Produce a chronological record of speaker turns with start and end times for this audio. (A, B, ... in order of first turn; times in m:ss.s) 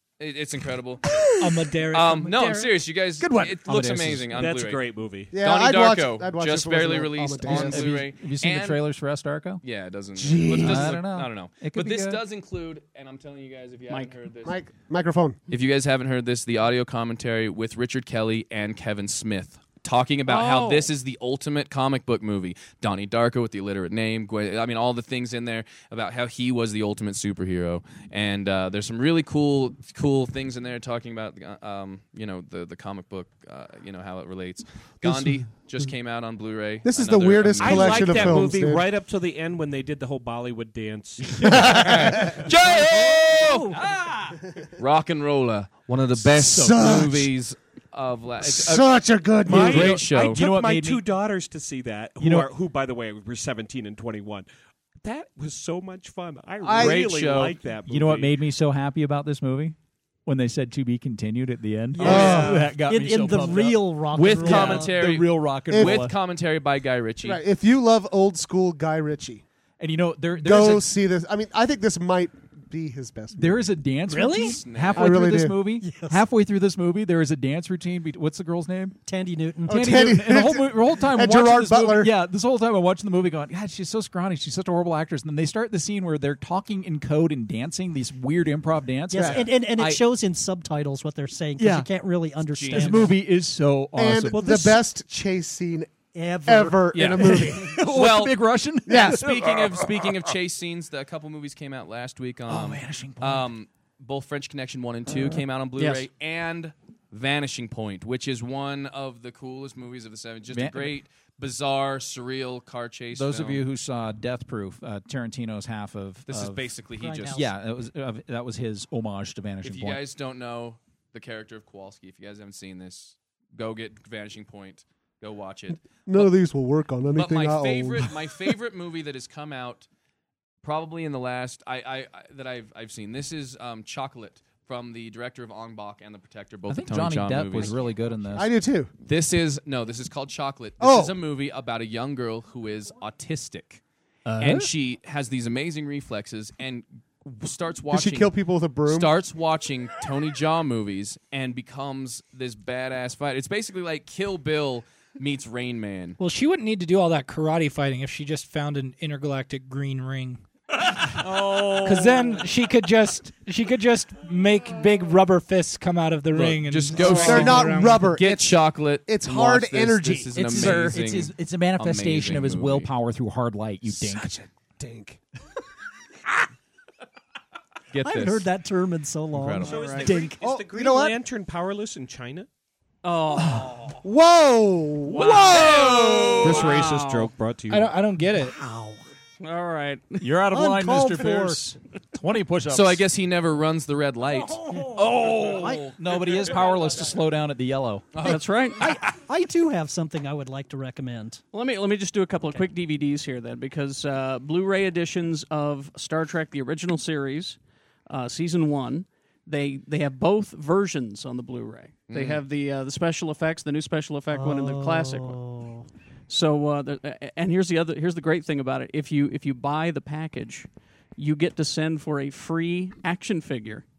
0:00.2-0:01.2 A
0:01.1-0:01.6 B
0:01.4-0:02.7 C
0:01.9-0:08.8 A
0:03.2-0:03.6 B
0:03.6-0:04.3 D
0:04.3-0:05.3 E
0:05.3-0:08.0 B
0:07.4-0:09.6 D
0:09.6-0:14.6 A
0:10.2-0:11.0 B
0:10.5-0:12.2 D
0:13.9-0:14.2 F
0:14.4-0:15.4 B
0:15.5-0:38.5 A
0:20.3-0:20.9 F
0:35.0-0:35.4 B
0:36.8-0:38.9 B
0:37.6-0:41.8 E
0:41.3-0:50.4 A
0:41.4-0:42.5 B
0:42.6-0:43.8 G
0:46.1-0:47.3 B
0:48.4-0:50.0 B
0:49.5-0:54.5 E
0:49.5-0:51.0 D
0:52.2-0:52.5 D
0:55.0-0:58.4 E
0:56.6-0:57.1 B
0:56.7-0:57.6 A
0:57.9-1:06.2 D
1:02.0-1:02.8 B
1:02.0-1:02.6 A
1:02.1-1:05.0 G
1:04.1-1:07.4 A
1:05.7-1:06.1 B
1:07.2-1:09.4 B
1:09.8-1:10.9 D
1:10.4-1:13.6 B
1:13.3-1:19.0 D
1:14.1-1:14.6 C
1:14.6-1:15.2 A
1:14.9-1:15.6 B
1:15.8-1:16.2 G
1:19.0-1:19.9 G
1:19.7-1:22.1 B
1:19.7-1:30.0 D
1:29.1-1:33.2 G
1:29.1-1:29.4 B
1:31.6-1:31.9 D
1:32.4-1:33.1 A
1:32.7-1:34.5 D
1:34.0-1:37.8 B
1:34.3-1:34.7 C
1:36.1-1:37.2 G
1:36.9-1:53.6 A
1:37.2-1:40.1 D
1:38.8-1:39.3 B
1:42.5-1:43.5 D
1:45.8-1:46.1 F
1:50.5-1:50.9 D
1:53.1-1:56.7 D
1:56.3-1:57.4 A
1:57.0-1:57.5 G
1:57.3-2:00.0 D
1:59.6-2:06.3 A
2:05.8-2:08.4 B
2:07.1-2:09.9 A
2:10.6-2:17.8 A
2:16.7-2:18.5 D
2:18.3-2:18.9 B
2:19.0-2:23.8 A
2:20.8-2:21.2 B
2:24.3-2:24.6 D
2:24.4-2:36.2 A
2:27.9-2:29.1 B
2:36.2-2:48.2 C
2:41.3-2:42.4 F
2:46.3-2:52.9 A
2:47.2-2:51.0 B
2:50.3-2:54.3 D
2:53.8-2:55.2 B
2:57.9-2:58.5 A
2:58.0-3:00.1 G
2:59.3-2:59.9 A
2:59.6-3:02.5 E
2:59.6-3:00.1 F
3:00.0-3:00.4 D
3:00.4-3:01.2 B
3:03.0-3:04.0 F
3:03.4-3:03.8 D
3:04.0-3:06.5 B
3:05.1-3:06.8 A
3:06.4-3:08.0 E
3:06.4-3:07.3 F
3:07.7-3:08.6 C
3:09.4-3:10.3 F
3:10.2-3:13.0 D
3:10.5-3:11.6 G
3:12.7-3:16.4 A
3:14.2-3:15.1 C
3:14.8-3:15.9 G
3:15.9-3:18.2 D
3:18.1-3:18.4 A
3:18.2-3:18.8 F
3:18.7-3:21.4 G
3:21.5-3:27.6 F
3:28.1-3:35.4 F
3:32.1-3:32.4 A
3:34.3-3:35.8 G
3:36.3-3:43.8 F